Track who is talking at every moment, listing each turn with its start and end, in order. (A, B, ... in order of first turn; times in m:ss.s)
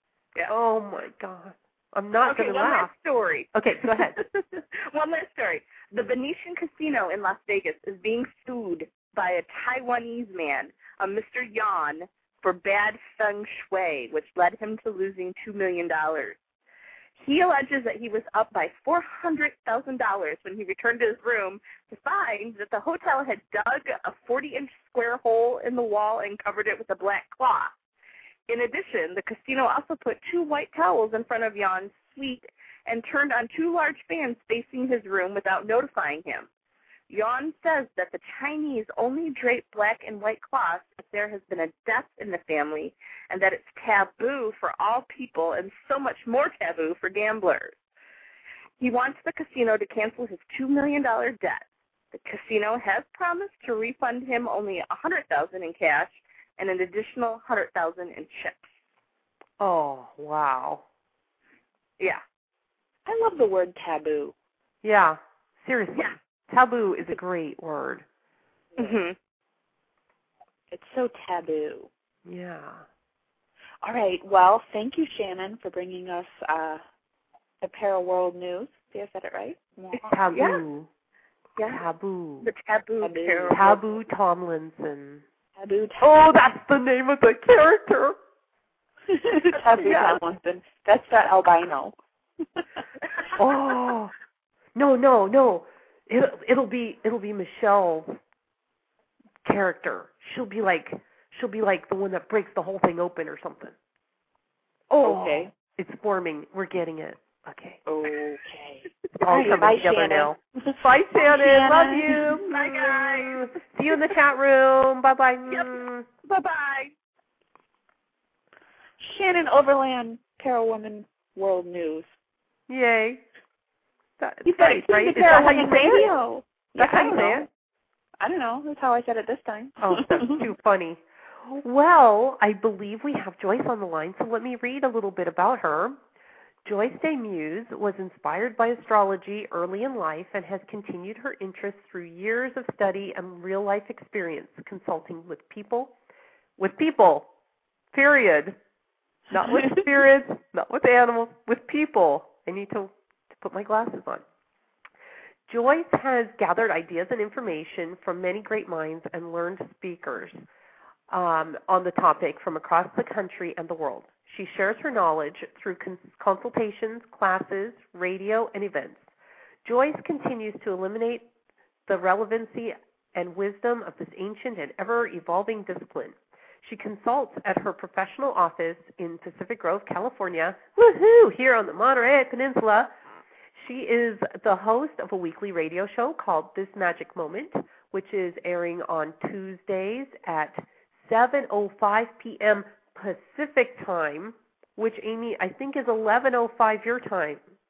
0:00.5-0:02.9 A
0:02.2-0:16.4 B
0:03.5-0:04.2 A
0:17.2-0:27.7 B
0:28.5-0:36.5 B
0:37.1-0:47.8 B
0:48.8-0:58.7 B
0:59.6-1:00.8 A
1:03.0-1:04.3 C
1:04.8-1:08.0 A
1:08.8-1:09.2 B
1:10.7-1:11.9 C
1:12.2-1:12.8 A
1:13.8-1:16.8 C
1:17.6-1:20.2 C
1:20.1-1:20.9 A
1:20.3-1:20.6 B
1:21.6-1:21.8 B
1:21.6-1:22.5 A
1:22.4-1:23.8 B
1:23.0-1:23.7 C
1:23.5-1:25.2 A
1:25.6-1:26.1 C
1:26.0-1:28.2 A
1:29.1-1:31.9 C
1:33.4-1:34.1 A
1:34.7-1:38.2 A
1:39.4-1:43.7 A
1:44.9-1:47.8 A
1:45.0-1:45.5 C
1:47.9-1:52.4 C
1:49.2-1:56.1 A
1:52.5-1:53.5 B
1:55.5-1:56.9 B
1:59.0-2:02.1 C
2:02.7-2:03.2 A
2:04.2-2:06.1 A
2:04.4-2:07.5 C
2:06.8-2:07.5 A
2:08.2-2:10.4 C
2:09.8-2:16.0 A
2:16.6-2:25.9 A
2:26.6-2:27.3 A
2:27.9-2:28.6 A
2:29.3-2:34.2 A
2:35.5-2:40.4 A
2:41.1-2:49.0 A
2:49.6-2:51.3 A
2:51.9-3:02.9 A
3:03.6-3:17.4 A